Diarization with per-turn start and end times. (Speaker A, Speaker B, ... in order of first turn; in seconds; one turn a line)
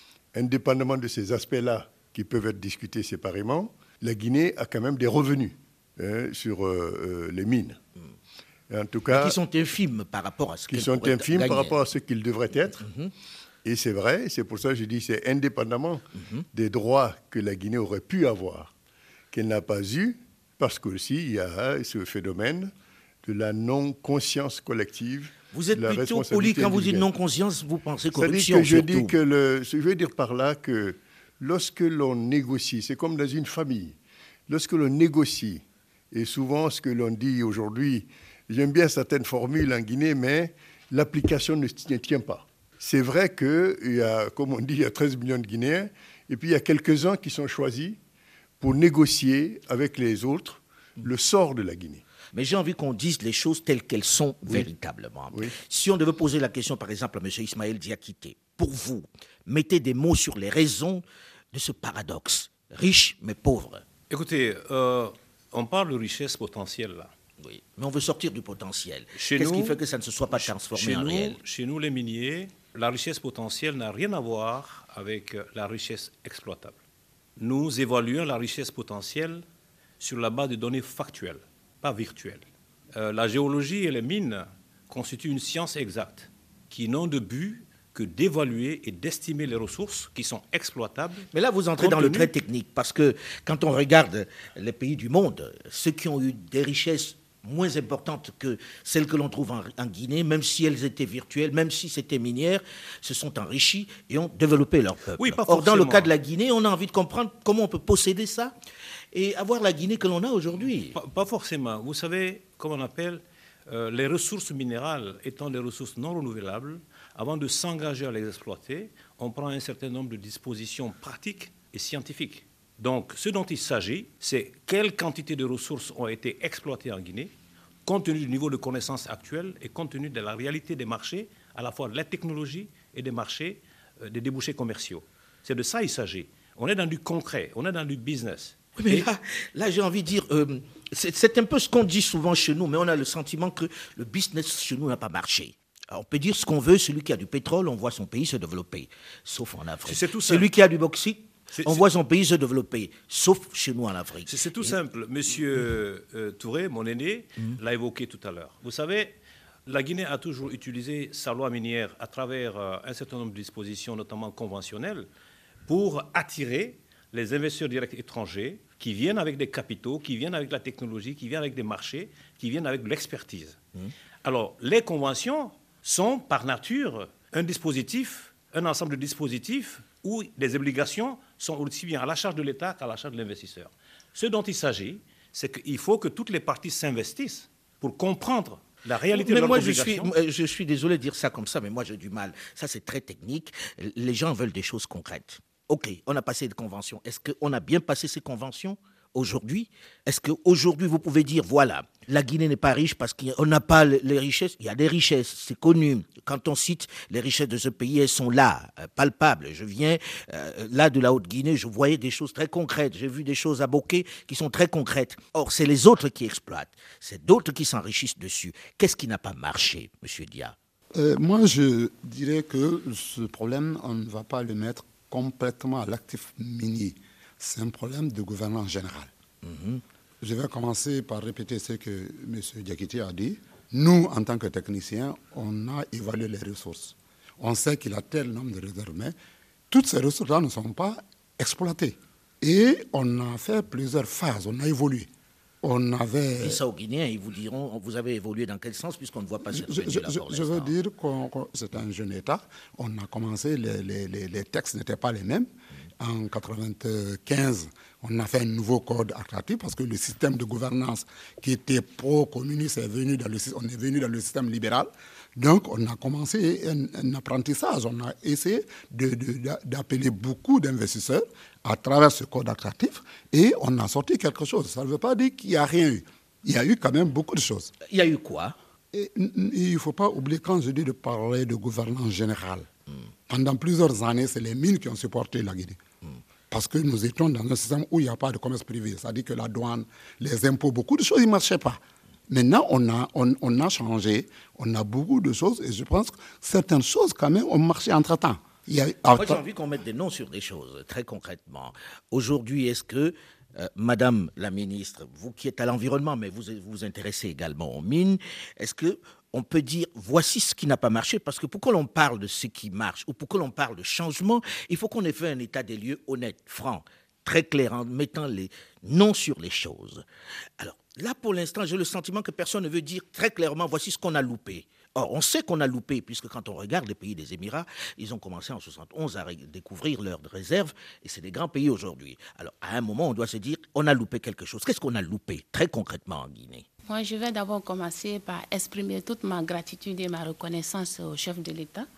Speaker A: 0.3-7.8
Speaker A: 8.7-9.4
Speaker B: 9.1-11.8
Speaker A: 10.7-12.8
Speaker B: 12.8-13.1
Speaker A: 13.7-18.7
Speaker B: 16.2-16.5
Speaker A: 19.3-22.7
Speaker A: 23.2-27.1
Speaker B: 25.5-29.2
Speaker A: 28.1-34.0
Speaker A: 34.5-48.0
Speaker A: 48.6-52.0
Speaker B: 52.3-63.9
Speaker C: 64.1-67.1
Speaker B: 67.4-71.4
Speaker C: 69.2-69.8
Speaker C: 70.3-76.8
Speaker C: 77.4-79.4
Speaker C: 80.0-91.3
Speaker B: 91.3-108.5
Speaker C: 91.8-92.3
Speaker C: 105.2-106.1
Speaker B: 109.1-111.0
Speaker C: 111.0-127.3
Speaker C: 127.8-139.1
Speaker B: 138.8-154.8
Speaker C: 149.9-150.5
Speaker C: 151.5-151.9
Speaker C: 154.3-165.1
Speaker C: 165.7-173.6
Speaker C: 174.2-190.1
Speaker B: 189.1-220.6
Speaker D: 220.9-229.1
Speaker B: 229.4-229.8
Speaker D: 230.2-239.2
Speaker D: 239.7-245.1
Speaker D: 245.6-246.6
Speaker B: 246.4-250.7
Speaker D: 249.5-277.7
Speaker B: 277.9-278.6
Speaker D: 278.9-282.7
Speaker D: 283.3-285.8
Speaker D: 286.5-299.4
Speaker B: 299.1-320.1
Speaker B: 320.6-336.7
Speaker E: 336.9-341.9